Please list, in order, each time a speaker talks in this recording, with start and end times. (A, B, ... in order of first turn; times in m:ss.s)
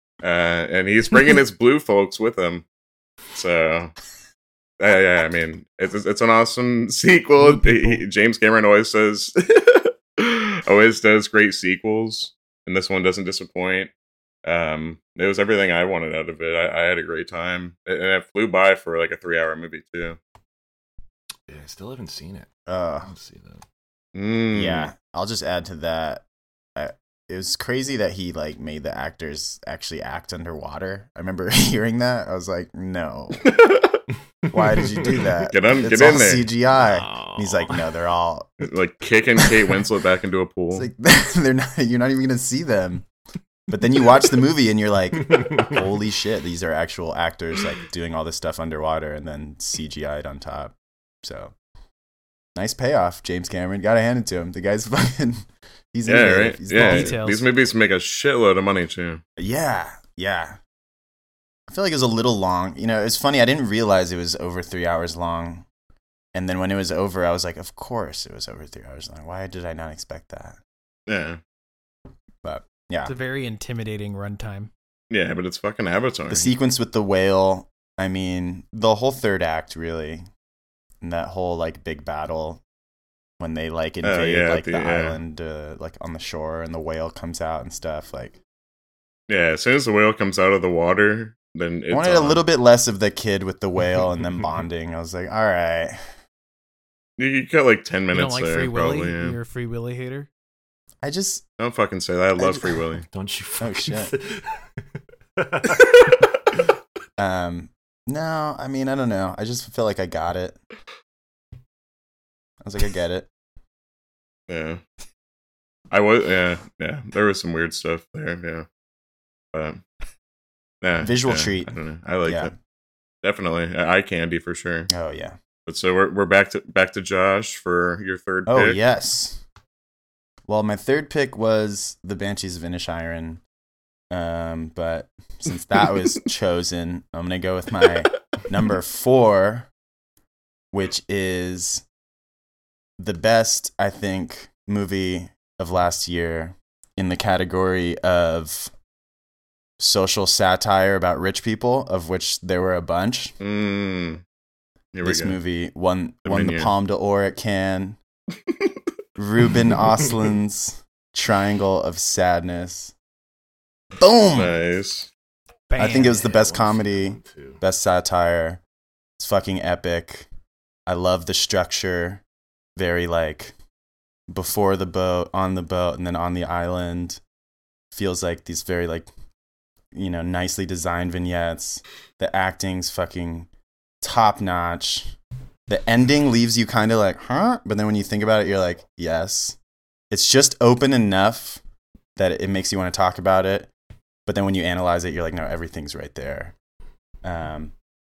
0:00.2-0:02.6 A
0:03.4-0:03.9 A
0:04.8-0:13.9 A
0:07.4-0:08.0 B
0:14.4-0:20.2 A
0:21.5-0:22.5 C
0:22.7-0:23.1 D
0:23.0-0:23.6 C
0:24.2-0:24.9 A
0:24.5-0:26.2 D
0:26.8-0:33.5 D
0:33.4-0:34.0 A
0:34.5-0:38.6 D
0:34.5-0:35.2 C
0:35.3-0:36.5 A
0:36.8-0:37.9 C
0:38.6-0:40.9 A
0:40.7-0:43.1 D
0:43.7-0:51.5 D
0:45.2-0:45.8 C
0:52.6-0:57.2 D
0:56.0-0:59.2 A
0:56.8-0:57.5 B
0:59.4-1:00.6 D
1:01.7-1:05.7 D
1:06.3-1:10.6 D
1:11.1-1:11.4 A
1:12.4-1:13.1 D
1:13.0-1:14.7 B
1:15.1-1:16.5 A
1:16.3-1:20.2 D
1:21.0-1:22.6 D
1:23.4-1:28.4 D
1:24.0-1:25.2 A
1:29.3-1:32.4 A
1:31.9-1:36.0 D
1:37.2-1:39.4 A
1:38.1-1:40.3 B
1:41.0-1:41.4 D
1:41.6-1:43.1 A
1:42.4-1:42.8 D
1:43.1-1:44.8 C
1:43.6-1:44.1 D
1:45.4-1:46.1 C
1:47.2-1:50.6 D
1:52.6-1:53.3 D
1:54.5-1:54.8 A
1:55.9-1:58.7 A
1:59.5-1:59.8 A
2:00.8-2:02.5 A
2:01.0-2:02.5 D
2:03.2-2:04.9 A
2:04.9-2:05.4 D
2:05.7-2:08.8 A
2:08.5-2:09.4 D
2:10.5-2:13.4 D
2:14.1-2:19.7 D
2:20.7-2:21.8 D
2:23.0-2:28.7 D
2:29.8-2:33.4 D
2:33.4-2:34.2 A
2:34.9-2:35.4 A
2:35.0-2:38.0 D
2:36.2-2:36.7 A
2:39.2-2:42.9 D
2:44.0-2:44.6 D
2:44.3-2:45.1 A
2:45.7-2:46.3 B
2:45.8-2:48.6 D
2:45.9-2:47.6 C
2:49.2-2:50.3 D
2:50.9-2:52.2 D
2:52.8-2:53.6 D
2:54.3-2:57.2 D
2:57.9-2:59.1 D
2:59.9-3:03.5 D
3:04.0-3:05.2 D
3:05.7-3:09.6 D
3:10.1-3:11.6 D
3:12.2-3:13.7 D
3:14.3-3:16.5 D
3:17.2-3:17.7 D